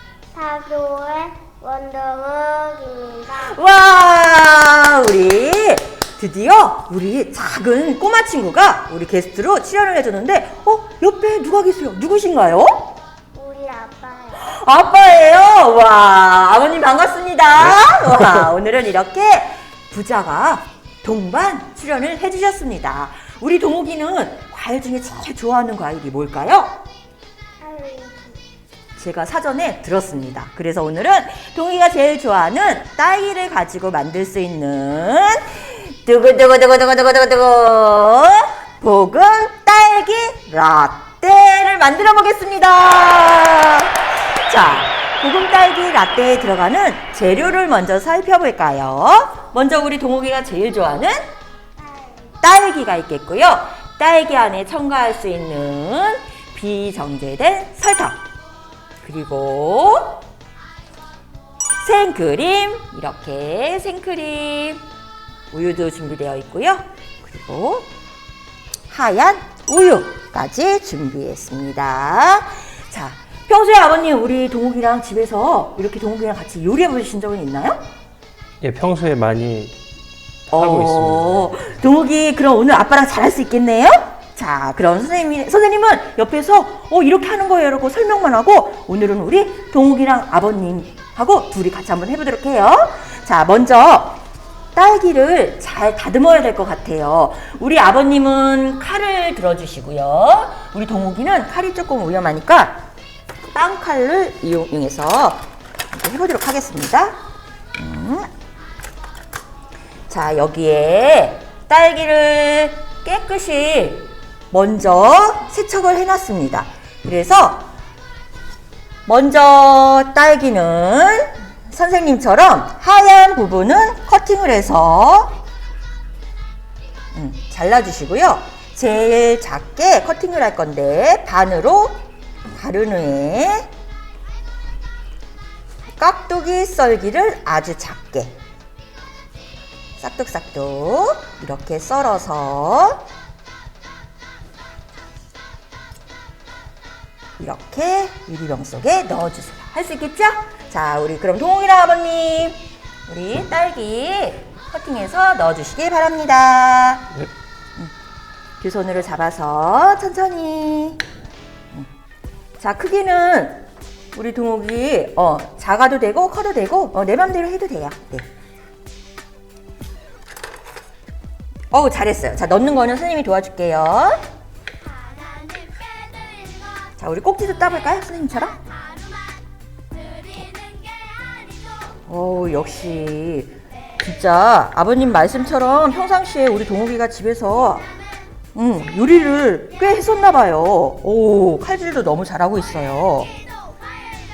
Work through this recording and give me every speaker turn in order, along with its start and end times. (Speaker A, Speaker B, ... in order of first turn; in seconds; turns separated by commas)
Speaker A: 0.3-3.6, Speaker B: 3.3-13.0, Speaker A: 13.3-14.5, Speaker B: 14.4-26.8, Speaker A: 27.6-28.4, Speaker B: 28.9-51.2, Speaker A: 51.8-52.4, Speaker B: 52.4-58.2, Speaker B: 59.0-60.2, Speaker B: 61.8-64.8, Speaker B: 65.5-67.9, Speaker B: 68.9-77.8, Speaker C: 78.6-79.7, Speaker B: 80.5-94.2, Speaker C: 80.5-81.5, Speaker B: 94.7-102.8, Speaker B: 103.5-107.2, Speaker B: 107.8-108.3, Speaker B: 110.1-117.7, Speaker B: 119.0-125.4, Speaker B: 127.1-133.7, Speaker B: 136.0-138.3, Speaker B: 140.0-143.1, Speaker B: 147.4-157.1, Speaker B: 158.6-161.0, Speaker B: 162.6-168.2, Speaker B: 171.7-174.2, Speaker B: 177.0-178.6, Speaker B: 182.1-187.9, Speaker B: 188.5-193.4